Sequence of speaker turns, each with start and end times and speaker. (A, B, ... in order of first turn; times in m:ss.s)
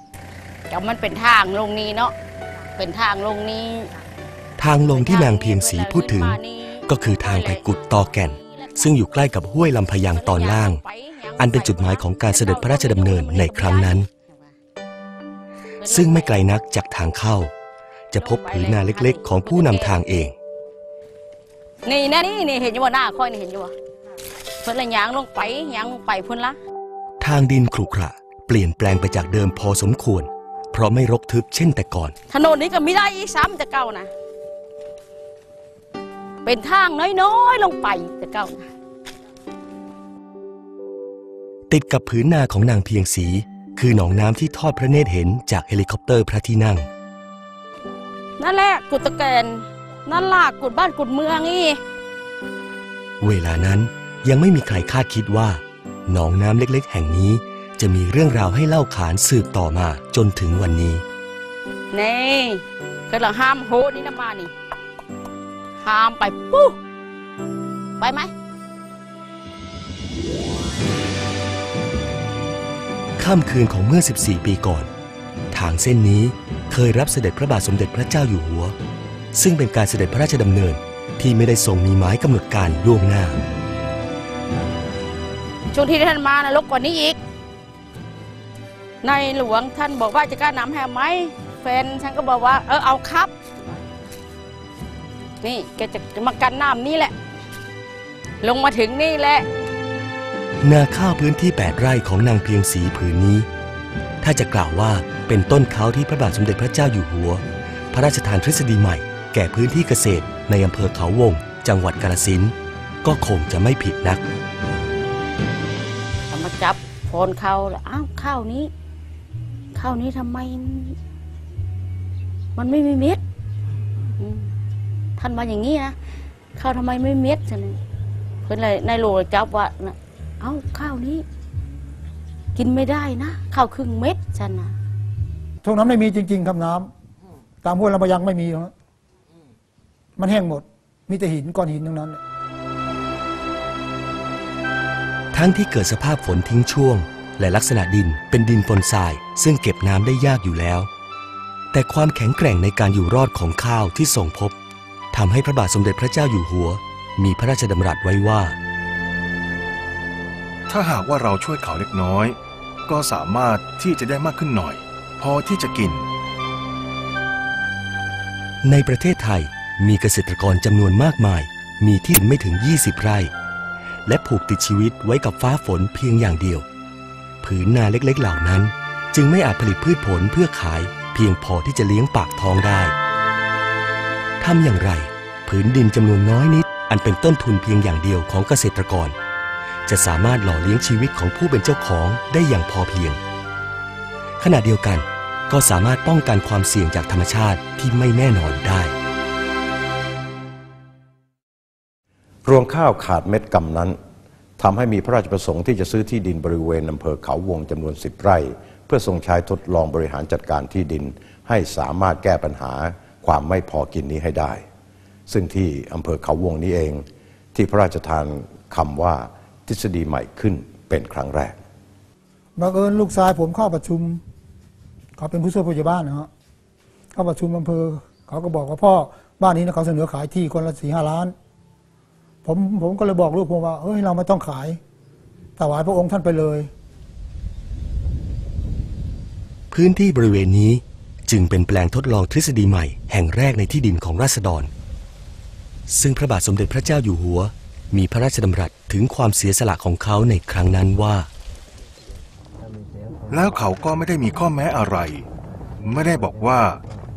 0:00.7-0:02.1 A
0:02.8-0:03.9 A
0:04.6-0:10.8 B
0:04.9-0:09.0 A
0:10.0-0:14.5 A
0:11.4-0:14.1 B
0:15.8-0:16.4 A
0:15.9-0:17.5 B
0:18.1-0:20.3 B
0:18.1-0:20.0 A
0:21.8-0:23.7 A
0:24.6-0:26.6 A
0:27.2-0:32.1 B
0:32.3-0:34.1 A
0:36.4-0:38.7 A
0:41.7-0:46.8 B
0:48.4-0:51.8 A
0:53.2-1:01.0 B
1:01.9-1:04.5 A
1:05.8-1:06.8 A
1:08.0-1:08.3 A
1:13.2-1:14.9 B
1:15.5-1:18.7 B
1:19.3-1:23.4 B
1:25.7-1:27.2 A
1:29.0-1:33.3 A
1:35.4-1:37.1 A
1:38.4-1:39.4 A
1:40.6-1:43.5 B
1:44.2-1:54.2 B
1:56.3-1:58.7 A
1:59.7-2:01.0 A
2:02.6-2:03.2 A
2:04.2-2:04.5 A
2:05.2-2:06.0 A
2:06.6-2:07.8 A
2:08.4-2:11.2 A
2:12.5-2:14.7 A
2:15.6-2:16.9 C
2:17.6-2:18.7 C
2:20.2-2:22.2 C
2:25.3-2:30.9 B
2:31.7-2:34.5 B
2:35.1-2:38.6 B
2:40.7-2:42.4 D
2:42.9-2:46.1 D
2:48.6-2:53.3 B
2:54.0-2:56.6 B
2:57.4-3:02.9 B
3:04.4-3:09.1 B
3:09.9-3:13.2 B
3:14.4-3:18.9 B
3:22.4-3:24.0 E
3:24.6-3:34.6 E
3:35.3-3:41.6 E
3:42.6-3:44.2 C
3:45.2-3:46.3 C
3:47.1-3:51.3 C
3:52.4-3:54.8 C
3:55.6-3:56.7 C
3:59.7-4:04.7 B
4:05.9-4:11.3 B
4:13.3-4:15.2 D
4:15.8-4:16.8 D